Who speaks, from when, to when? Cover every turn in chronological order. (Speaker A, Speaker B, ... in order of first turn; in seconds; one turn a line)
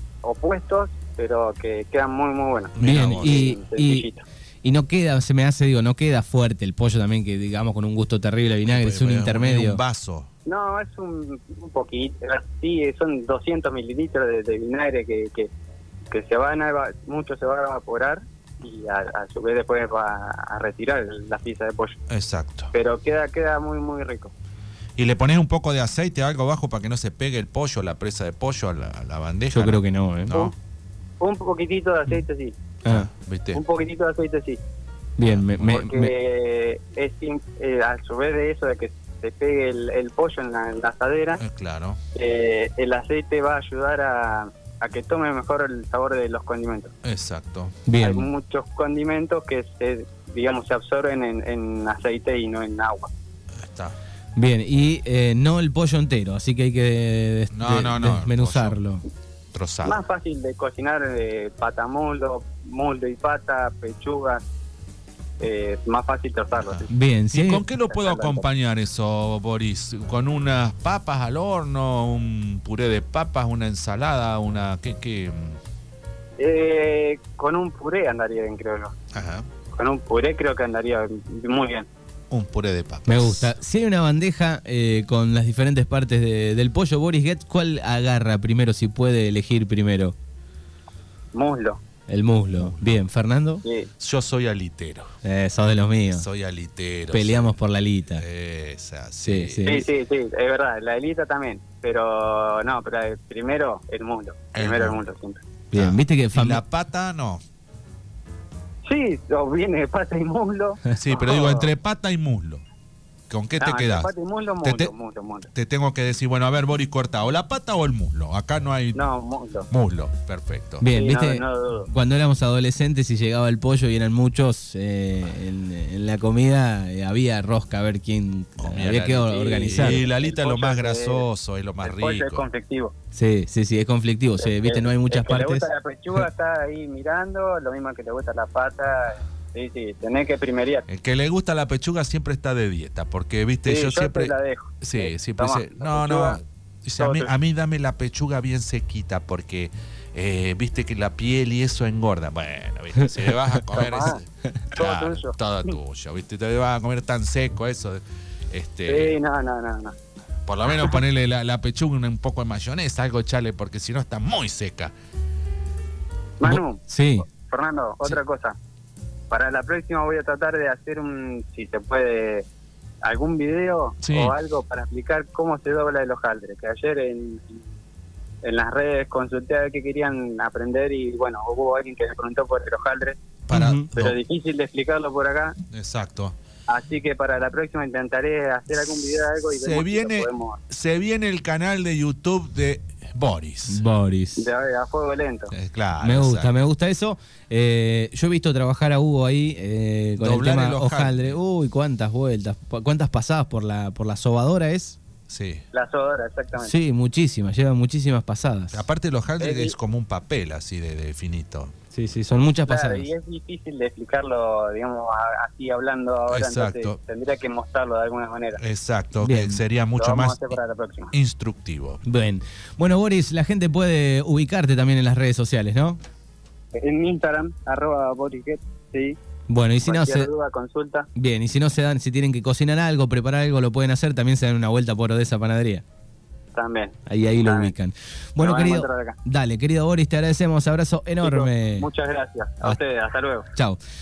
Speaker A: 0.2-4.2
Speaker B: 2.8-3.6
Speaker C: 2.8-4.1
Speaker C: 4.6-9.8
Speaker B: 8.7-10.3
Speaker A: 10.4-15.5
Speaker A: 16.1-22.0
Speaker B: 22.1-22.7
Speaker A: 22.7-24.3
Speaker B: 25.0-30.5
Speaker C: 29.5-30.5
Speaker A: 31.2-32.6
Speaker C: 32.8-33.1
Speaker B: 32.9-33.6
Speaker A: 33.5-34.6
Speaker C: 35.2-36.1
Speaker B: 35.2-35.7
Speaker A: 35.6-41.4
Speaker B: 41.4-42.0
Speaker A: 42.1-46.9
Speaker B: 47.0-47.7
Speaker C: 47.9-48.3
Speaker A: 48.0-53.1
Speaker B: 53.6-53.9
Speaker C: 54.4-59.0
Speaker B: 57.5-58.8
Speaker B: 59.5-60.0
Speaker A: 59.8-64.4
Speaker A: 65.4-66.9
Speaker B: 66.5-75.6
Speaker C: 66.9-67.6
Speaker A: 67.9-68.4
Speaker A: 76.4-78.9
Speaker B: 79.1-79.5
Speaker A: 79.8-81.9
Speaker B: 82.3-83.5
Speaker C: 83.0-90.1
Speaker A: 91.3-91.8
Speaker C: 92.1-93.6
Speaker B: 92.6-93.0
Speaker A: 93.6-93.9
Speaker B: 94.0-95.1
Speaker C: 95.2-96.2
Speaker B: 96.1-97.5
Speaker C: 97.1-98.2
Speaker B: 98.2-99.7
Speaker C: 99.2-99.9
Speaker A: 99.6-105.4
Speaker B: 104.5-105.0
Speaker C: 105.7-106.6
Speaker B: 105.7-107.4
Speaker A: 108.8-111.7
Speaker B: 110.9-112.6
Speaker B: 113.3-114.1
Speaker A: 113.6-115.5
Speaker B: 114.6-114.9
Speaker B: 115.5-119.1
Speaker A: 118.9-119.7
Speaker B: 119.7-120.8
Speaker C: 120.8-130.0
Speaker A: 120.9-121.9
Speaker B: 128.6-132.4
Speaker A: 129.2-131.2
Speaker A: 131.8-132.9
Speaker C: 133.1-135.6
Speaker A: 134.4-140.8
Speaker B: 140.9-159.1
Speaker A: 143.7-146.4
Speaker A: 147.0-147.3
Speaker A: 153.7-154.2
Speaker A: 154.7-155.4
Speaker A: 158.9-159.9
Speaker B: 160.5-164.9
Speaker A: 166.4-168.6
Speaker C: 166.9-167.2
Speaker A: 169.3-172.4
Speaker A: 173.0-177.6
Speaker B: 174.0-174.3
Speaker A: 178.4-183.2
Speaker B: 183.5-184.2
Speaker C: 183.5-183.9
Speaker A: 183.9-185.6
Speaker B: 185.7-186.3
Speaker A: 186.7-190.6
Speaker B: 189.6-193.8
Speaker C: 193.7-194.5
Speaker A: 194.4-195.5
Speaker B: 195.5-196.5
Speaker C: 196.0-205.0
Speaker B: 200.2-201.4
Speaker B: 205.3-205.6
Speaker A: 205.7-206.7
Speaker C: 206.6-208.8
Speaker B: 208.7-211.7
Speaker A: 209.4-209.7
Speaker C: 211.9-213.1
Speaker A: 212.7-218.6
Speaker B: 216.3-217.0
Speaker B: 218.6-220.6
Speaker C: 219.2-219.6
Speaker A: 220.0-221.1
Speaker B: 221.1-222.0
Speaker C: 222.0-226.0
Speaker A: 226.7-229.2
Speaker C: 229.5-230.3
Speaker A: 229.8-231.1
Speaker C: 231.2-235.8
Speaker A: 236.5-237.7
Speaker C: 237.1-241.9
Speaker A: 238.4-239.2
Speaker A: 241.2-243.5